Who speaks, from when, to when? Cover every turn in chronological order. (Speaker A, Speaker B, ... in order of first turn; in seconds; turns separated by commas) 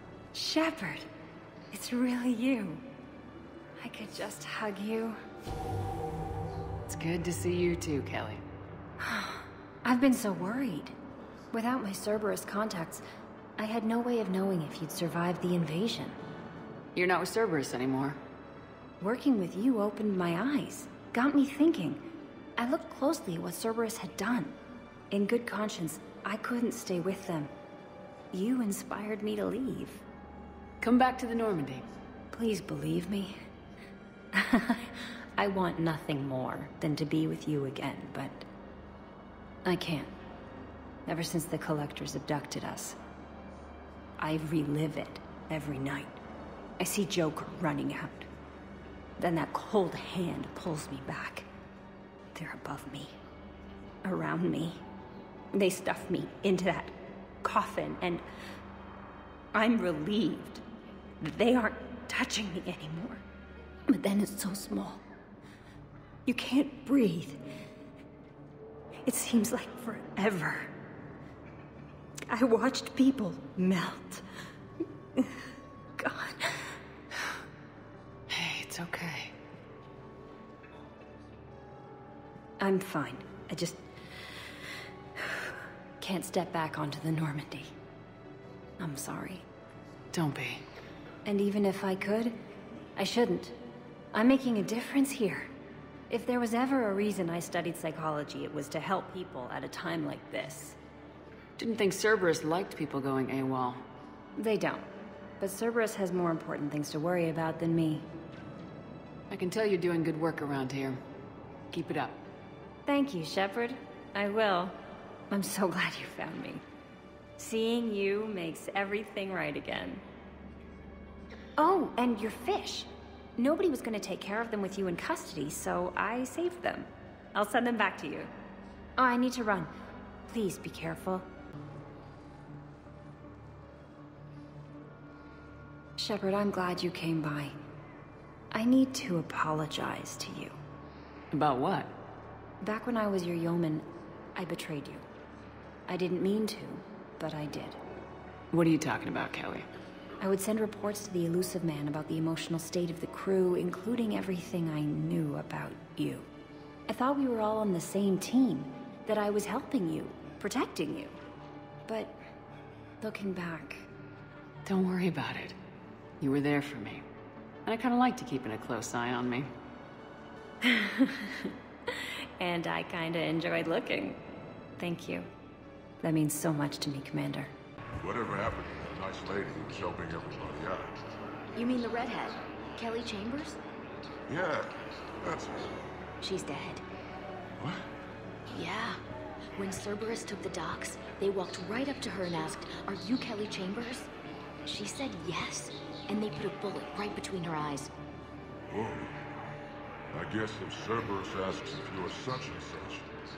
Speaker A: 0.3-1.1, Speaker A: 1.7-2.9, Speaker A: 3.8-5.2, Speaker B: 6.9-8.4, Speaker A: 9.0-10.9, Speaker A: 11.5-13.0, Speaker A: 13.6-16.2, Speaker B: 16.9-18.2, Speaker A: 19.0-22.1, Speaker A: 22.6-24.6, Speaker A: 25.1-27.5, Speaker A: 28.3-30.0, Speaker B: 30.8-31.9, Speaker A: 32.3-33.3, Speaker A: 34.3-38.5, Speaker A: 39.6-40.1, Speaker A: 41.1-43.0, Speaker A: 44.2-46.2, Speaker A: 46.8-48.3, Speaker A: 49.2-51.5, Speaker A: 52.3-53.1, Speaker A: 54.0-54.8, Speaker A: 55.5-58.2, Speaker A: 59.5-60.6, Speaker A: 61.2-63.2, Speaker A: 63.9-65.0, Speaker A: 66.2-67.4, Speaker A: 69.0-70.7, Speaker A: 72.3-74.2, Speaker A: 76.0-76.8, Speaker B: 78.3-79.3, Speaker A: 82.6-83.8, Speaker A: 85.2-87.7, Speaker A: 88.8-89.4, Speaker B: 90.1-90.6, Speaker A: 91.2-92.3, Speaker A: 93.0-93.5, Speaker A: 94.1-95.5, Speaker A: 96.1-100.8, Speaker B: 101.6-103.8, Speaker A: 104.4-104.9, Speaker A: 105.4-108.0, Speaker B: 109.3-111.0, Speaker B: 111.7-112.2, Speaker A: 112.9-114.8, Speaker A: 115.3-116.6, Speaker A: 117.4-120.0, Speaker A: 121.6-128.3, Speaker A: 129.0-129.7, Speaker A: 130.3-131.2, Speaker A: 136.0-137.6, Speaker A: 138.5-140.6, Speaker B: 141.3-141.9, Speaker A: 142.6-145.0, Speaker A: 145.9-147.8, Speaker B: 148.5-149.7, Speaker A: 150.2-156.3, Speaker A: 156.9-161.2, Speaker A: 161.9-162.2, Speaker A: 163.0-163.9, Speaker B: 164.7-165.6, Speaker B: 166.2-167.0, Speaker B: 167.7-169.5, Speaker A: 170.6-174.2, Speaker A: 174.8-175.3, Speaker A: 176.0-177.5, Speaker C: 178.0-180.9, Speaker D: 181.6-183.6, Speaker C: 184.3-185.8, Speaker D: 186.2-186.8, Speaker C: 187.6-187.8, Speaker D: 188.5-189.0, Speaker D: 189.6-194.1, Speaker D: 194.7-197.9, Speaker C: 198.7-199.2, Speaker C: 200.1-203.0